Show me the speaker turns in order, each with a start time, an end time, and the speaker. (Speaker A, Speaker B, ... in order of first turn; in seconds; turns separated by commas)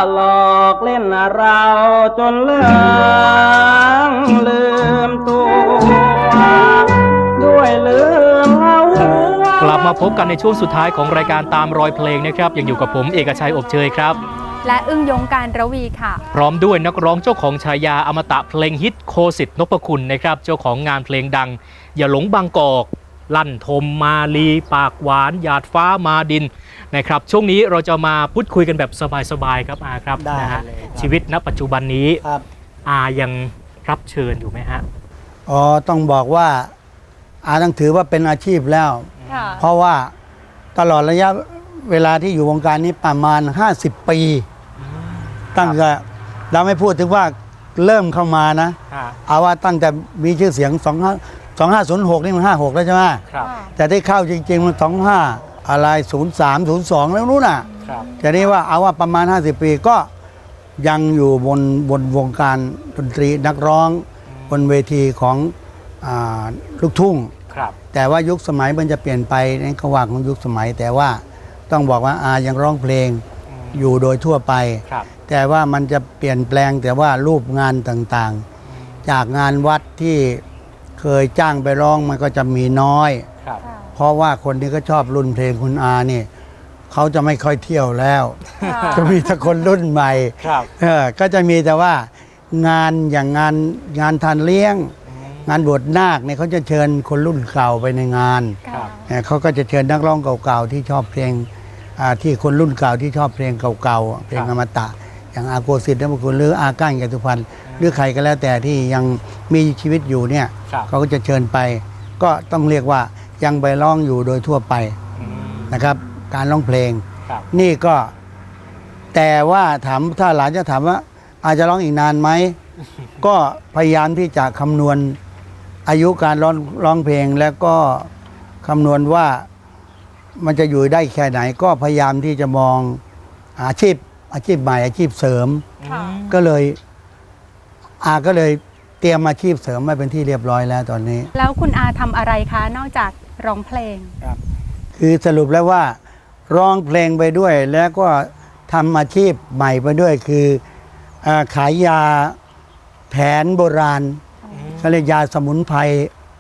Speaker A: 1.4-5.1, Speaker A: 7.5-9.3, Speaker B: 9.6-14.2, Speaker C: 14.6-16.2, Speaker B: 16.3-32.2, Speaker D: 30.2-31.1, Speaker B: 32.8-34.8, Speaker D: 35.5-36.7, Speaker D: 37.4-40.1, Speaker B: 39.2-39.5, Speaker C: 39.3-39.6, Speaker D: 40.7-44.5, Speaker B: 44.8-45.8, Speaker D: 45.5-53.2, Speaker B: 48.9-49.2, Speaker B: 53.3-53.5, Speaker C: 53.4-53.7, Speaker D: 53.8-60.1, Speaker C: 57.7-58.4, Speaker B: 57.8-58.2, Speaker D: 60.8-67.3, Speaker B: 64.3-64.7, Speaker B: 67.5-67.8, Speaker D: 67.9-78.4, Speaker B: 73.5-73.9, Speaker B: 78.7-79.0, Speaker D: 79.0-80.4, Speaker D: 81.0-83.3, Speaker C: 83.6-83.9, Speaker D: 83.9-86.3, Speaker D: 86.9-94.9, Speaker B: 88.6-89.2, Speaker C: 88.6-89.3, Speaker B: 90.4-90.7, Speaker B: 95.1-95.5, Speaker D: 95.4-115.0, Speaker C: 98.7-99.1, Speaker B: 98.7-98.9, Speaker B: 107.7-108.0, Speaker B: 115.2-115.8, Speaker D: 115.7-118.1, Speaker D: 119.1-122.6, Speaker D: 123.2-125.2, Speaker D: 125.8-128.1, Speaker D: 128.6-129.4, Speaker D: 130.4-133.0, Speaker D: 133.6-135.7, Speaker B: 135.8-136.4, Speaker C: 135.8-136.2, Speaker D: 136.3-136.8, Speaker D: 138.0-141.3, Speaker C: 141.3-144.1, Speaker D: 145.0-146.0, Speaker D: 146.5-150.6, Speaker D: 151.2-152.3, Speaker D: 153.1-154.2, Speaker B: 154.5-155.1, Speaker D: 154.8-156.1